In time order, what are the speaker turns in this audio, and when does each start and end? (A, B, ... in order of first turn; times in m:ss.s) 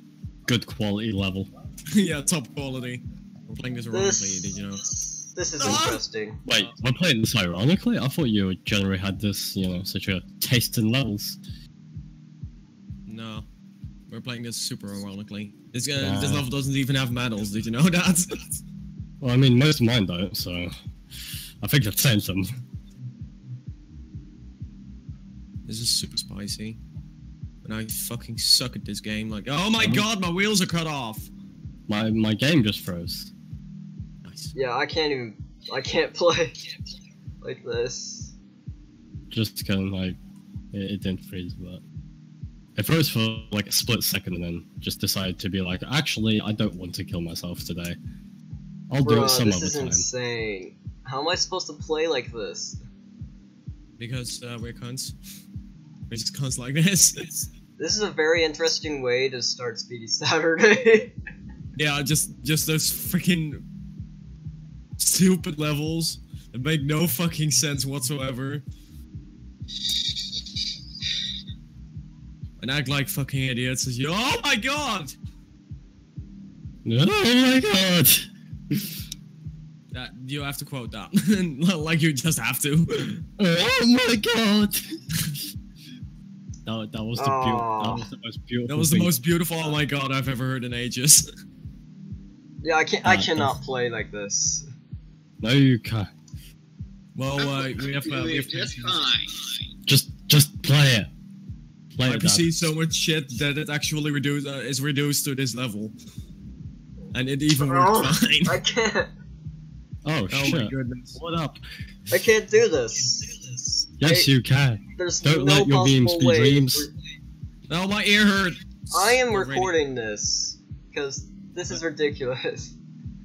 0:00.5-0:01.5 A
0:01.9-0:04.9 B
0:03.9-0:04.6 C
0:05.4-0:06.4 C
0:05.6-0:06.0 B
0:06.4-0:11.4 A
0:13.1-0:13.5 B
0:14.1-0:18.6 B
0:16.0-0:16.4 A
0:19.2-0:20.7 A
0:21.6-0:22.5 A
0:25.7-0:26.8 B
0:27.6-0:31.3 B
0:29.8-0:30.0 A
0:31.9-0:33.3 A
0:34.2-0:34.5 B
0:34.5-0:36.6 C
0:37.4-0:38.3 C
0:39.3-0:40.2 A
0:40.7-0:41.8 A
0:42.8-0:48.0 A
0:48.9-0:50.1 A
0:49.0-0:52.8 C
0:54.0-0:55.2 B
0:56.1-0:57.5 B
0:57.8-1:01.1 C
1:01.8-1:03.6 B
1:05.0-1:08.6 B
1:12.6-1:15.2 B
1:16.8-1:18.8 A
1:19.9-1:23.2 B
1:23.4-1:24.8 A
1:26.7-1:29.1 A
1:27.2-1:28.1 C
1:28.7-1:31.3 B
1:32.6-1:34.7 C
1:33.0-1:33.6 A
1:35.4-1:36.1 A
1:37.2-1:39.3 B
1:39.9-1:41.1 A
1:42.0-1:42.5 A
1:42.0-1:45.9 B
1:47.1-1:48.6 B
1:47.6-1:49.1 C
1:50.0-1:51.6 A
1:50.3-1:51.2 B
1:52.1-1:53.3 C
1:54.0-1:56.9 A
1:54.0-1:54.3 C
1:55.0-1:56.9 C
1:57.7-1:59.8 B
1:58.9-2:02.7 C